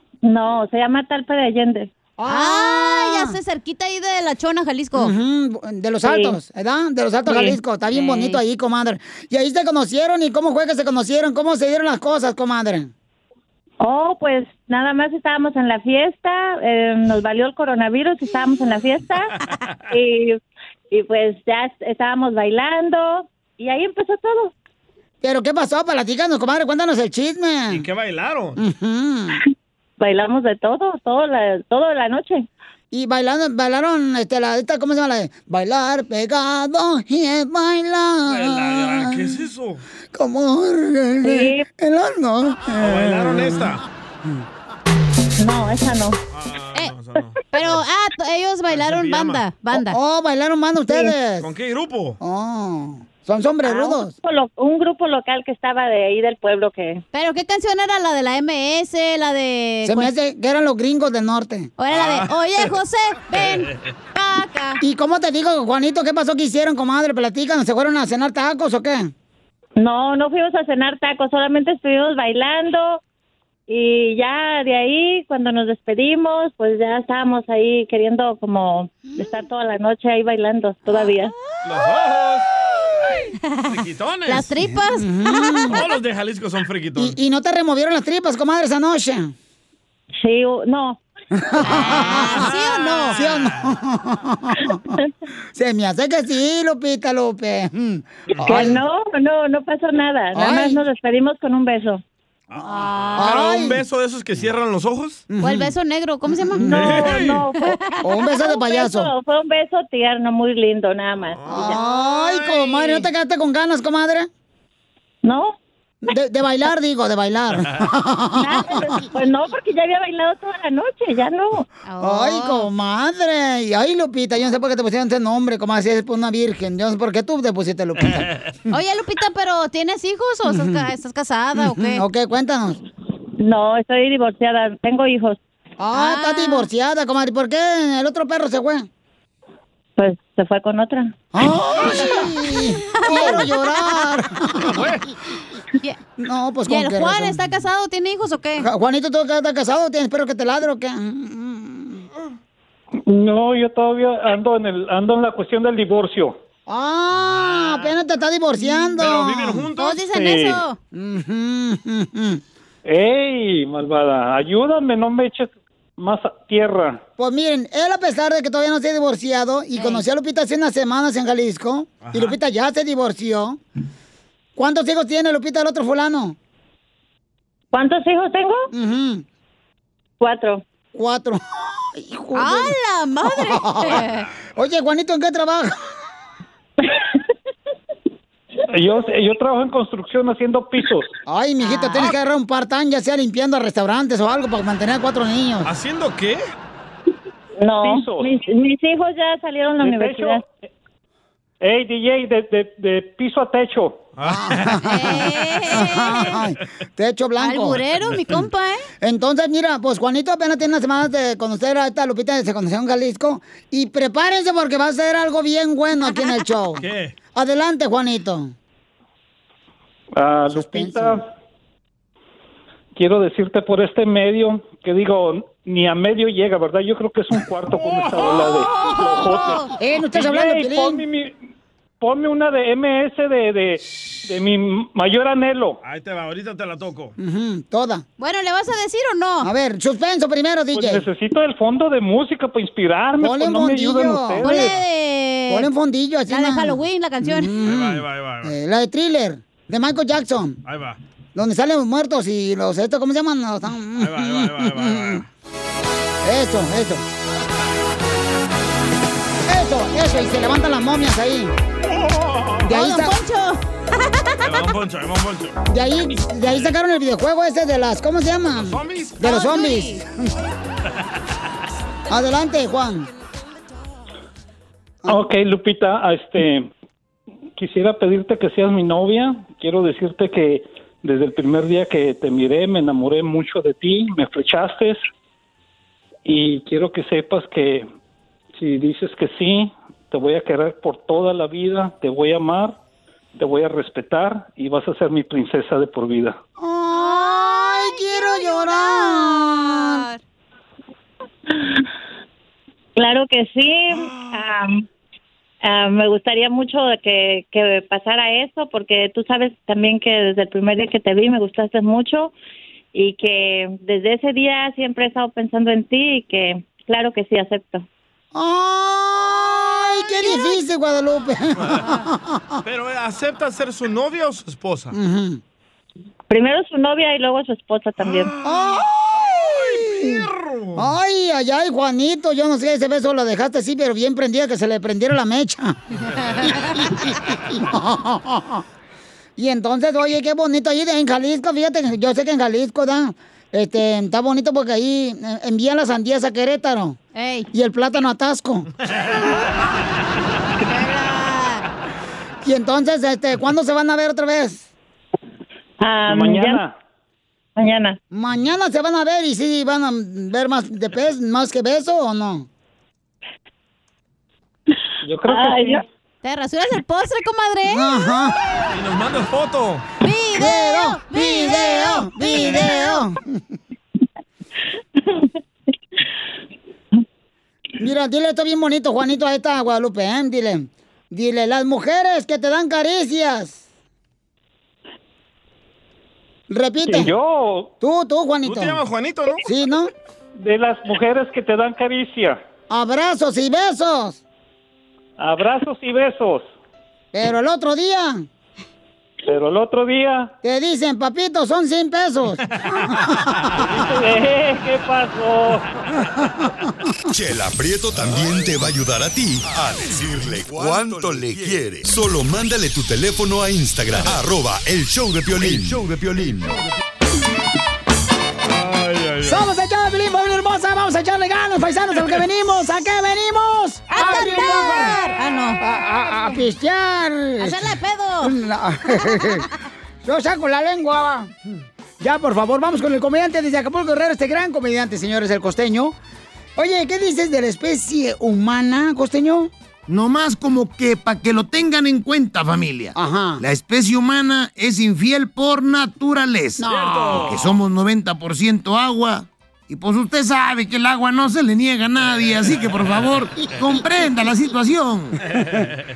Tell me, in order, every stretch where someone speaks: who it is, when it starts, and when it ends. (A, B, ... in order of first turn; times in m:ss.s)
0:00.2-0:01.9 A
0:02.2-0:03.4 B
0:02.3-0:05.1 C
0:05.0-0:12.9 B
0:06.0-0:06.4 A
0:07.3-0:08.4 C
0:13.8-0:19.3 A
0:19.9-0:20.4 A
0:20.9-0:24.5 A
0:25.2-0:27.9 B
0:27.7-0:28.6 D
0:28.6-0:29.4 B
0:30.0-0:32.5 A
0:32.9-0:39.4 B
0:38.3-0:39.8 D
0:40.1-0:43.8 B
0:41.2-0:41.6 A
0:42.8-0:43.8 D
0:45.4-0:46.2 A
0:46.3-0:47.8 D
0:47.5-0:50.0 C
0:48.7-0:49.4 D
0:49.7-0:51.5 B
0:51.4-0:52.2 D
0:52.2-0:54.1 B
0:53.6-0:57.0 A
0:57.1-1:00.1 C
0:59.8-1:01.7 B
1:01.8-1:04.8 C
1:01.9-1:02.8 D
1:03.4-1:03.9 D
1:04.8-1:09.1 B
1:09.8-1:13.0 A
1:13.7-1:21.3 A
1:21.6-1:22.5 D
1:23.7-1:24.5 D
1:24.3-1:25.7 C
1:24.7-1:25.8 B
1:25.7-1:27.2 D
1:27.0-1:29.3 B
1:30.2-1:31.0 A
1:31.3-1:32.6 B
1:31.8-1:33.2 C
1:31.9-1:33.7 D
1:33.1-1:35.0 B
1:35.6-1:38.8 B
1:38.3-1:38.7 D
1:38.4-1:42.0 A
1:40.3-1:40.8 B
1:42.5-1:45.2 D
1:43.1-1:43.8 B
1:45.3-1:45.7 B
1:45.4-1:46.7 C
1:46.3-1:47.2 B
1:46.6-1:51.8 A
1:46.7-1:47.5 D
1:47.7-1:48.0 C
1:48.0-1:49.1 B
1:51.2-1:52.7 D
1:51.5-1:54.3 B
1:55.2-1:55.6 A
1:56.0-1:59.0 B
1:58.4-2:01.7 A
2:01.9-2:02.7 C
2:02.0-2:08.3 B
2:08.7-2:12.0 C
2:10.5-2:10.8 B
2:11.6-2:12.8 B
2:13.4-2:15.4 A
2:15.8-2:18.9 B
2:15.9-2:16.7 C
2:20.0-2:21.1 A
2:21.3-2:25.0 B
2:21.8-2:24.0 C
2:23.1-2:23.4 A
2:24.6-2:25.0 D
2:26.2-2:27.4 B
2:26.7-2:28.7 C
2:28.6-2:32.1 B
2:33.1-2:36.4 E
2:36.7-2:39.7 B
2:37.2-2:37.9 D
2:39.0-2:40.0 D
2:39.8-2:40.8 C
2:40.1-2:40.6 E
2:40.9-2:42.4 B
2:42.9-2:47.0 E
2:47.2-2:53.6 B
2:49.8-2:50.0 C
2:52.0-2:52.4 D
2:54.6-2:56.4 B
2:57.7-2:58.7 A
2:58.7-2:59.2 B
3:00.2-3:00.6 A
3:00.9-3:05.8 B
3:02.4-3:04.3 C
3:08.7-3:11.1 E
3:11.3-3:15.7 B
3:11.6-3:12.1 C
3:15.6-3:16.4 D
3:17.6-3:20.4 A
3:17.8-3:18.3 E
3:19.8-3:20.4 E
3:21.6-3:24.0 E
3:24.2-3:24.9 D
3:24.3-3:27.8 B
3:24.8-3:26.4 C
3:27.4-3:28.9 C
3:29.0-3:38.5 B
3:36.8-3:37.1 D
3:40.2-3:41.3 E
3:40.5-3:41.2 B
3:43.0-3:51.4 E
3:48.8-3:49.7 C
3:49.8-3:51.1 B
3:52.0-3:55.8 E
3:55.8-3:57.2 D
3:57.2-3:58.0 B
3:58.2-3:59.5 C
3:59.4-4:01.1 B
4:00.7-4:04.7 E
4:03.2-4:04.8 B
4:04.4-4:05.7 C
4:05.5-4:10.6 B
4:06.3-4:07.6 C
4:07.6-4:08.5 D
4:10.7-4:11.0 D
4:11.4-4:15.2 B
4:14.0-4:15.3 D
4:16.2-4:17.0 B
4:19.5-4:21.6 B
4:21.8-4:22.7 D
4:22.6-4:23.2 B
4:22.7-4:24.5 C
4:24.4-4:25.6 D
4:25.7-4:30.1 B
4:28.6-4:29.2 D
4:29.2-4:30.0 C
4:32.1-4:33.1 B
4:35.1-4:36.7 E
4:37.6-4:45.0 E
4:46.2-4:47.9 E
4:48.6-4:52.8 E
4:53.4-4:56.4 E
4:56.6-5:00.1 B
4:56.9-5:00.2 C
5:03.0-5:04.8 A
5:05.6-5:12.4 A
5:12.9-5:17.9 A
5:18.3-5:22.6 B
5:20.2-5:20.6 C
5:21.6-5:21.9 D
5:22.6-5:25.0 D
5:24.9-5:25.4 B
5:26.3-5:28.3 A
5:28.0-5:30.9 D
5:28.4-5:35.8 B
5:36.4-5:38.6 B
5:39.4-5:47.0 B
5:47.2-5:47.5 C
5:47.5-5:48.7 B
5:50.6-5:51.7 C
5:52.4-5:54.7 B
5:55.8-5:56.6 A
5:56.1-5:56.8 E
5:57.6-5:58.0 A
5:58.1-6:02.5 B
6:05.0-6:05.8 E
6:05.2-6:05.8 A
6:06.2-6:07.9 C
6:07.6-6:08.4 B
6:08.7-6:09.8 D
6:10.0-6:13.0 C
6:10.4-6:13.4 B
6:17.8-6:23.6 B
6:26.5-6:27.2 B
6:26.8-6:27.7 E
6:27.8-6:28.8 B
6:28.4-6:29.4 D
6:29.4-6:29.9 B
6:30.4-6:32.4 E
6:32.7-6:34.2 B
6:35.2-6:36.5 E
6:37.1-6:38.2 B
6:39.3-6:40.3 E
6:40.4-6:43.6 B
6:42.6-6:43.0 D
6:43.7-6:45.6 E
6:47.1-6:56.6 F
6:48.0-6:48.4 D
6:58.4-6:59.4 D
6:59.2-7:05.0 B
7:03.9-7:05.6 C
7:05.6-7:09.5 B
7:07.4-7:08.4 C
7:10.0-7:11.3 B
7:12.0-7:16.0 B
7:16.6-7:19.5 B
7:19.9-7:35.2 G
7:23.0-7:23.4 B
7:26.6-7:27.5 B
7:26.6-7:27.5 D
7:35.3-7:35.8 D